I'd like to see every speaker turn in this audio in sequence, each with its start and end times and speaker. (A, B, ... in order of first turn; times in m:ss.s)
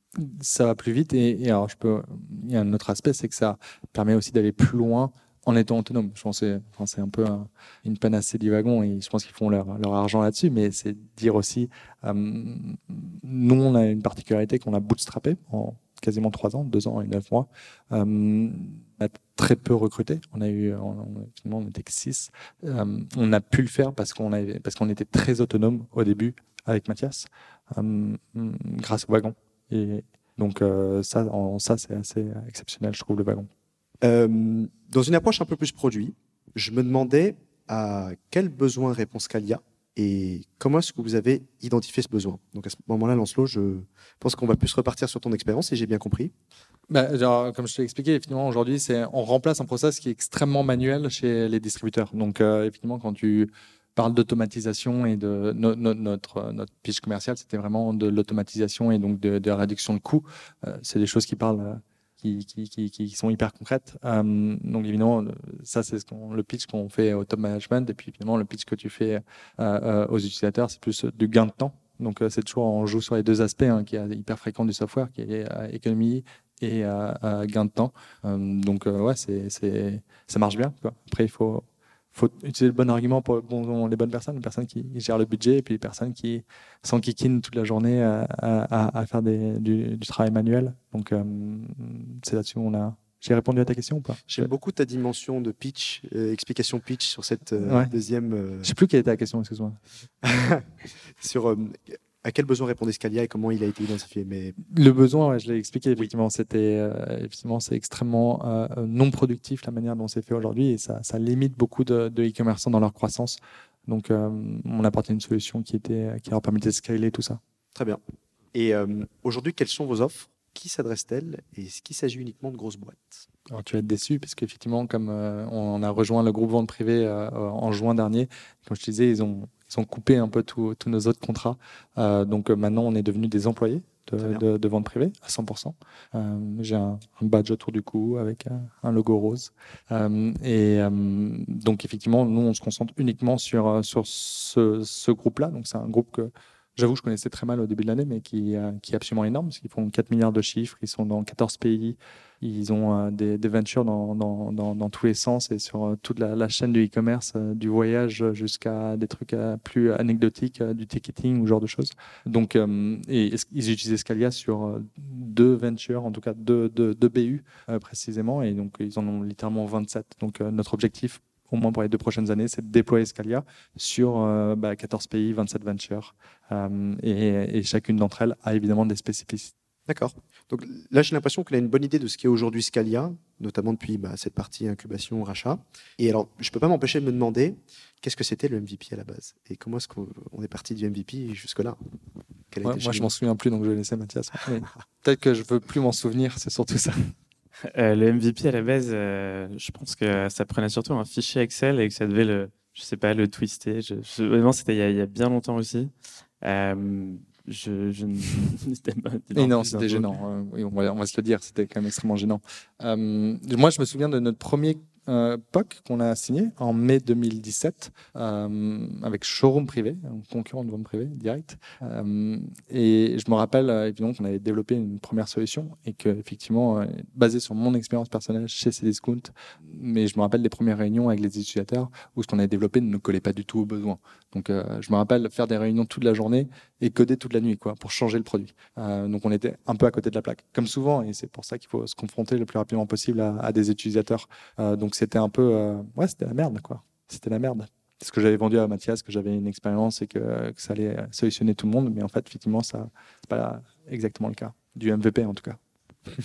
0:00.2-0:33.5 A
0:34.0-0:46.3 B
0:46.9-1:34.5 A
1:34.3-1:38.7 B
1:37.6-1:37.9 A
1:38.6-1:39.8 A
1:40.2-1:44.6 B
1:44.7-1:57.4 A
1:57.7-1:58.0 B
1:58.5-2:03.2 B
2:03.5-2:59.5 A
2:59.9-3:11.8 B
3:12.5-3:13.1 B
3:12.6-3:17.1 A
3:17.7-3:25.9 C
3:26.4-3:30.0 C
3:29.3-4:15.6 A